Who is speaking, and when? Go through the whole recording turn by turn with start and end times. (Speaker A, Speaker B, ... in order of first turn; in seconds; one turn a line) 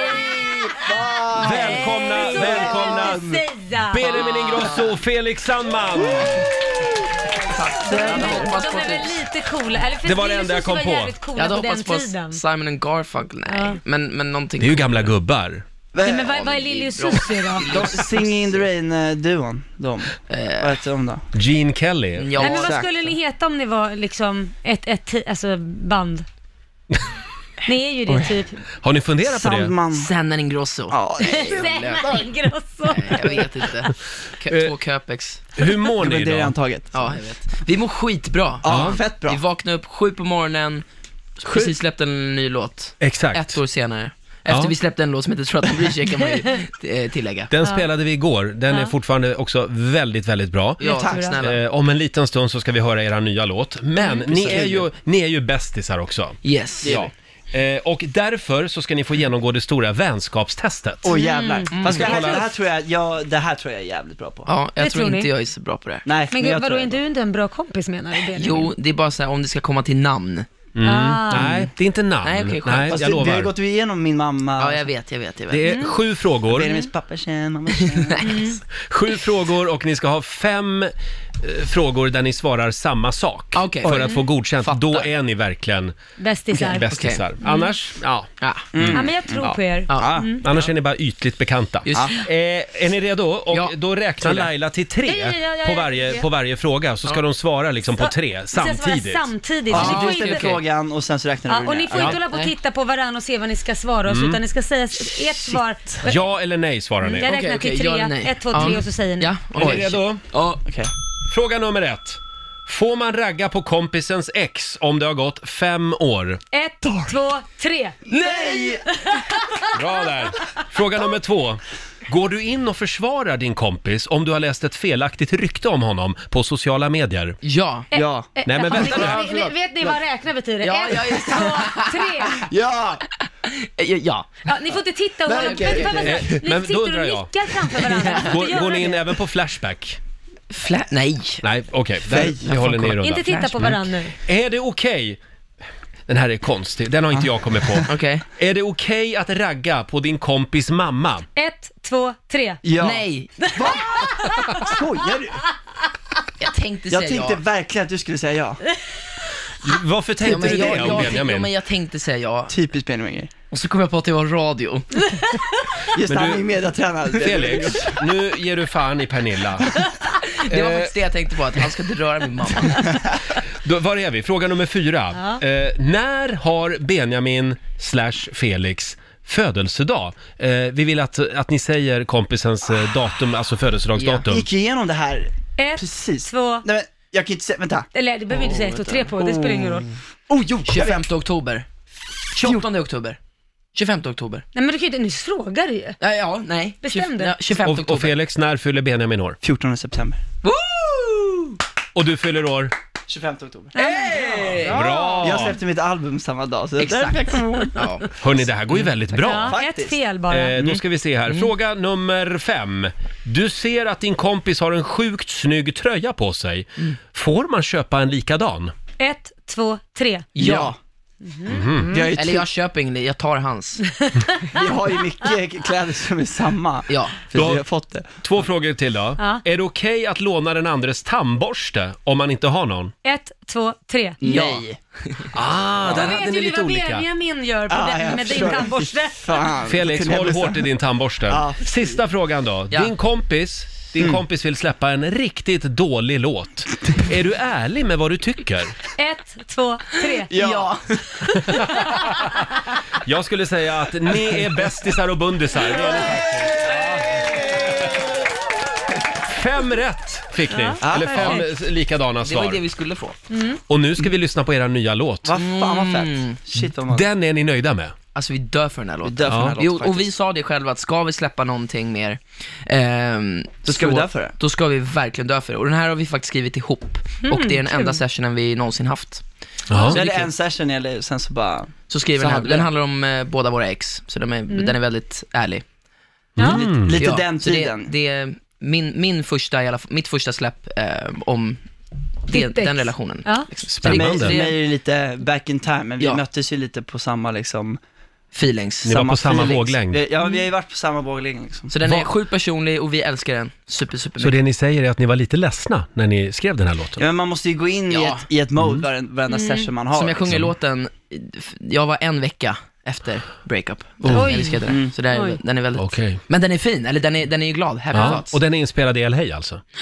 Speaker A: 0.7-3.5
Speaker B: 1.4-6.5
Speaker C: 1.4-4.6
Speaker D: 4.1-5.0
Speaker A: 6.0-6.4
Speaker D: 7.4-9.2
Speaker C: 7.8-12.4
Speaker A: 7.8-8.6
Speaker B: 10.0-11.2
Speaker D: 11.4-15.1
Speaker C: 13.5-13.8
Speaker B: 14.6-15.6
Speaker A: 15.9-16.4
Speaker C: 16.0-17.9
Speaker D: 16.2-18.6
Speaker A: 17.7-21.2
Speaker D: 20.3-20.8
Speaker B: 21.3-22.4
Speaker D: 22.2-22.9
Speaker C: 22.4-26.3
Speaker A: 22.4-22.9
Speaker C: 27.6-28.6
Speaker A: 28.1-28.3
Speaker B: 28.8-29.7
Speaker A: 29.2-30.1
Speaker D: 29.9-32.1
Speaker A: 30.9-32.3
Speaker C: 31.2-33.7
Speaker D: 32.9-35.5
Speaker B: 34.5-34.8
Speaker B: 35.5-36.5
Speaker A: 35.9-37.2
Speaker D: 36.9-40.9
Speaker A: 38.6-39.4
Speaker B: 38.7-39.0
Speaker D: 41.4-47.5
Speaker B: 43.0-43.6
Speaker B: 44.5-44.8
Speaker B: 47.5-61.1
Speaker C: 48.7-48.9
Speaker D: 50.8-51.6
Speaker C: 50.8-51.4
Speaker A: 50.9-51.4
Speaker C: 54.0-54.3
Speaker D: 54.3-54.9
Speaker D: 56.4-57.0
Speaker A: 56.8-57.1
Speaker A: 61.0-64.5
Speaker C: 61.1-61.9
Speaker D: 61.7-62.4
Speaker B: 61.9-62.5
Speaker D: 64.5-66.1
Speaker C: 64.8-65.3
Speaker A: 66.0-67.0
Speaker C: 66.3-68.7
Speaker D: 68.3-70.5
Speaker B: 70.8-73.5
Speaker C: 70.8-71.6
Speaker D: 72.2-73.0
Speaker A: 72.9-74.9
Speaker D: 74.6-75.7
Speaker B: 75.5-76.7
Speaker C: 75.6-76.0
Speaker A: 76.5-78.3
Speaker D: 78.1-78.5
Speaker C: 78.2-78.6
Speaker B: 78.8-86.0
Speaker D: 83.5-84.0
Speaker A: 83.8-84.8
Speaker C: 83.9-84.2
Speaker C: 86.2-86.9
Speaker B: 86.5-89.7
Speaker D: 86.9-87.2
Speaker C: 87.4-87.7
Speaker D: 88.4-88.7
Speaker A: 88.7-89.5
Speaker C: 88.9-90.5
Speaker A: 90.0-90.3
Speaker B: 90.4-99.9
Speaker D: 91.9-92.2
Speaker C: 95.0-96.3
Speaker C: 98.0-100.6
Speaker A: 99.7-102.2
Speaker D: 99.7-100.6
Speaker C: 101.5-106.2
Speaker B: 101.9-102.2
Speaker B: 104.1-104.4
Speaker B: 106.0-107.3
Speaker C: 107.0-109.4
Speaker D: 107.2-110.6
Speaker B: 109.6-110.2
Speaker B: 111.3-116.4
Speaker C: 116.5-120.3
Speaker D: 118.1-118.8
Speaker B: 119.7-127.4
Speaker D: 127.4-127.9
Speaker C: 127.9-132.5
Speaker A: 127.9-130.0
Speaker B: 128.4-129.3
Speaker D: 130.6-132.4
Speaker A: 131.3-133.1
Speaker D: 133.5-134.4
Speaker C: 134.4-139.1
Speaker A: 135.3-136.3
Speaker D: 135.3-136.2
Speaker B: 135.9-140.0
Speaker D: 137.9-138.3
Speaker D: 140.5-141.4
Speaker B: 141.4-145.2
Speaker A: 142.0-142.6
Speaker D: 142.4-143.8
Speaker C: 143.0-144.2
Speaker B: 146.1-151.3
Speaker A: 147.2-147.9
Speaker D: 147.9-148.2
Speaker C: 151.3-152.7
Speaker A: 152.6-155.4
Speaker D: 152.8-153.5
Speaker C: 153.4-154.8
Speaker D: 156.4-157.4
Speaker A: 156.9-158.6
Speaker B: 159.6-161.5
Speaker D: 160.2-162.6
Speaker A: 160.3-161.2
Speaker A: 162.5-163.3
Speaker D: 163.5-165.0
Speaker C: 165.1-165.6
Speaker A: 165.9-168.1
Speaker B: 166.1-166.5
Speaker B: 167.2-169.7
Speaker D: 170.3-173.0
Speaker B: 170.5-170.9
Speaker B: 173.4-184.5
Speaker C: 175.2-175.4
Speaker D: 184.0-184.2
Speaker A: 184.3-187.9
Speaker C: 185.6-186.7
Speaker C: 187.9-189.9
Speaker D: 188.4-188.8
Speaker A: 188.4-191.0
Speaker D: 190.7-191.7
Speaker D: 192.3-193.2
Speaker A: 192.4-192.7
Speaker D: 193.7-194.4
Speaker C: 194.5-196.0
Speaker D: 196.0-198.1
Speaker C: 196.8-197.4
Speaker B: 197.6-199.4
Speaker A: 199.4-200.2
Speaker D: 200.4-201.6
Speaker B: 201.9-202.7
Speaker A: 203.1-207.9
Speaker C: 203.8-204.6
Speaker D: 203.8-204.8
Speaker B: 204.6-205.6
Speaker D: 206.8-208.1
Speaker B: 208.2-209.6
Speaker D: 208.7-209.0
Speaker C: 209.2-210.6
Speaker A: 209.4-210.0
Speaker B: 210.3-218.7
Speaker C: 219.0-220.3
Speaker D: 220.3-220.7
Speaker A: 220.4-220.8
Speaker C: 221.2-222.1
Speaker B: 221.5-221.9
Speaker A: 221.8-222.5
Speaker D: 222.2-223.8
Speaker C: 223.8-224.6
Speaker A: 224.5-228.2
Speaker D: 226.9-227.2
Speaker B: 227.3-227.6
Speaker B: 228.2-232.9
Speaker C: 233.0-234.2
Speaker A: 234.2-234.7
Speaker D: 234.2-235.3
Speaker B: 235.3-237.1
Speaker A: 235.8-236.2
Speaker C: 235.9-239.6
Speaker A: 237.7-240.7
Speaker B: 239.7-248.8
Speaker A: 241.3-242.0
Speaker A: 244.0-244.2
Speaker C: 249.0-250.3
Speaker D: 250.3-250.8
Speaker A: 250.3-251.3
Speaker B: 251.3-257.9
Speaker B: 259.1-262.7
Speaker C: 260.5-261.5
Speaker A: 260.8-261.4
Speaker D: 262.2-263.2
Speaker C: 263.3-263.6
Speaker B: 263.7-265.3
Speaker A: 265.2-267.1
Speaker D: 265.4-266.4
Speaker B: 266.6-267.9
Speaker D: 268.1-279.2
Speaker A: 269.0-270.1
Speaker B: 269.3-269.6
Speaker A: 273.6-274.4
Speaker C: 277.2-278.0
Speaker B: 279.7-280.0
Speaker A: 279.9-282.7
Speaker D: 279.9-280.3
Speaker D: 281.9-285.6
Speaker C: 284.5-284.8
Speaker B: 286.4-287.0
Speaker C: 286.4-286.6
Speaker A: 286.4-287.9
Speaker D: 287.0-291.6
Speaker D: 292.2-294.6
Speaker C: 292.3-293.5
Speaker B: 293.7-294.4
Speaker A: 293.9-297.8
Speaker D: 298.3-299.7
Speaker B: 298.9-300.0
Speaker A: 298.9-301.8
Speaker D: 301.7-304.4
Speaker B: 301.8-302.1
Speaker B: 304.2-307.0
Speaker A: 307.0-310.3
Speaker D: 307.9-308.2
Speaker B: 308.6-308.8
Speaker C: 309.3-309.7
Speaker D: 309.9-318.4
Speaker B: 310.3-310.5
Speaker B: 314.0-314.4
Speaker C: 314.1-315.4
Speaker A: 314.7-314.9
Speaker B: 315.8-316.2
Speaker B: 317.9-319.6